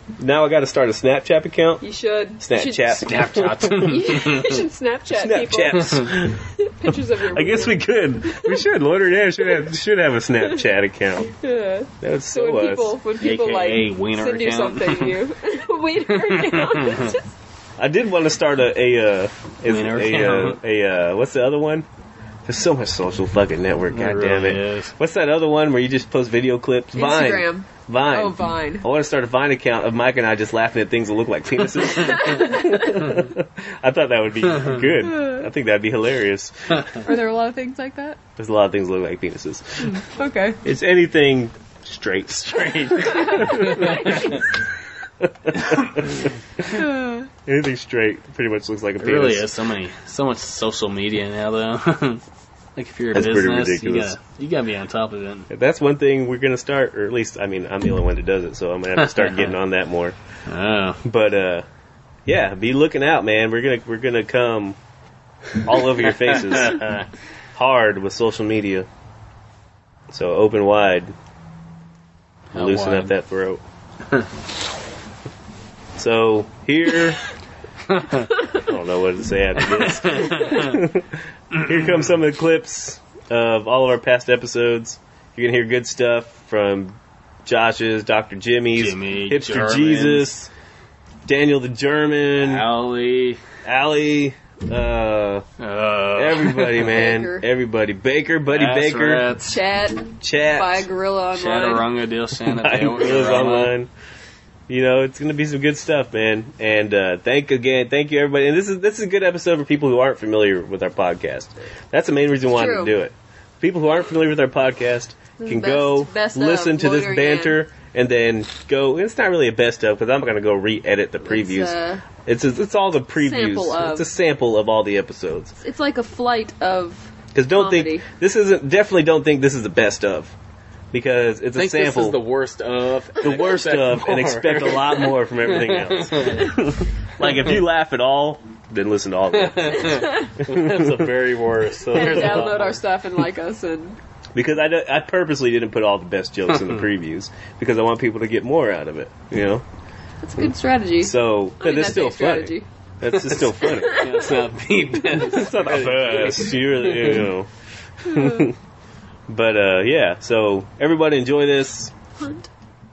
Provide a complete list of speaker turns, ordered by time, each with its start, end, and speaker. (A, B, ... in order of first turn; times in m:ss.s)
0:00.2-0:01.8 A
0:01.8-0:03.0 B
0:02.4-0:04.0 A
0:02.9-0:04.5 C
0:03.7-0:08.6 B
0:05.2-0:06.4 A
0:07.3-0:11.3 A
0:11.4-0:17.3 B
0:12.0-0:13.0 A
0:13.2-0:15.2 C
0:16.2-0:17.1 C
0:17.8-0:21.8 A
0:19.6-0:20.6 C
0:22.4-0:37.0 A
0:23.9-0:24.9 C
0:26.9-0:28.8 B
0:32.0-0:32.6 B
0:35.0-0:35.5 B
0:37.0-0:38.2 B
0:38.4-0:40.0 A
0:39.8-0:40.6 B
0:40.6-0:44.2 A
0:42.6-0:44.2 C
0:43.1-0:44.3 B
0:45.2-0:46.7 A
0:46.7-0:47.3 B
0:47.4-0:49.5 A
0:49.0-0:52.2 C
0:52.8-0:55.5 C
0:53.1-0:54.2 A
0:55.5-1:00.2 A
0:59.0-0:59.5 C
1:00.5-1:01.0 C
1:01.0-1:01.6 A
1:02.2-1:04.8 A
1:05.6-1:07.0 A
1:06.3-1:07.0 C
1:07.5-1:08.9 A
1:10.1-1:11.1 A
1:12.5-1:13.1 C
1:12.5-1:13.6 A
1:16.0-1:17.2 A
1:17.9-1:18.3 C
1:18.6-1:30.5 A
1:19.8-1:20.8 C
1:28.8-1:30.3 C
1:31.2-1:32.6 A
1:32.4-1:33.4 C
1:33.6-1:35.4 A
1:35.6-1:36.8 C
1:36.1-1:39.3 A
1:36.8-1:37.4 B
1:38.5-1:39.6 C
1:39.4-1:41.8 B
1:40.2-1:40.9 A
1:41.3-1:43.7 C
1:42.5-1:43.9 A
1:44.7-2:05.5 A
1:52.5-1:53.0 B
1:55.4-1:57.6 B
2:01.2-2:02.0 B
2:03.2-2:04.1 B
2:05.6-2:08.0 B
2:07.3-2:10.3 A
2:10.9-2:12.2 A
2:11.6-2:16.5 C
2:13.2-2:21.0 A
2:19.3-2:22.8 C
2:21.9-2:24.0 B
2:22.0-2:22.4 A
2:24.3-2:29.6 A
2:30.2-2:32.6 B
2:31.0-2:34.0 A
2:33.9-2:37.3 C
2:35.2-2:37.5 A
2:38.0-2:38.5 A
2:38.1-2:38.5 B
2:39.3-2:41.9 A
2:42.2-2:42.5 B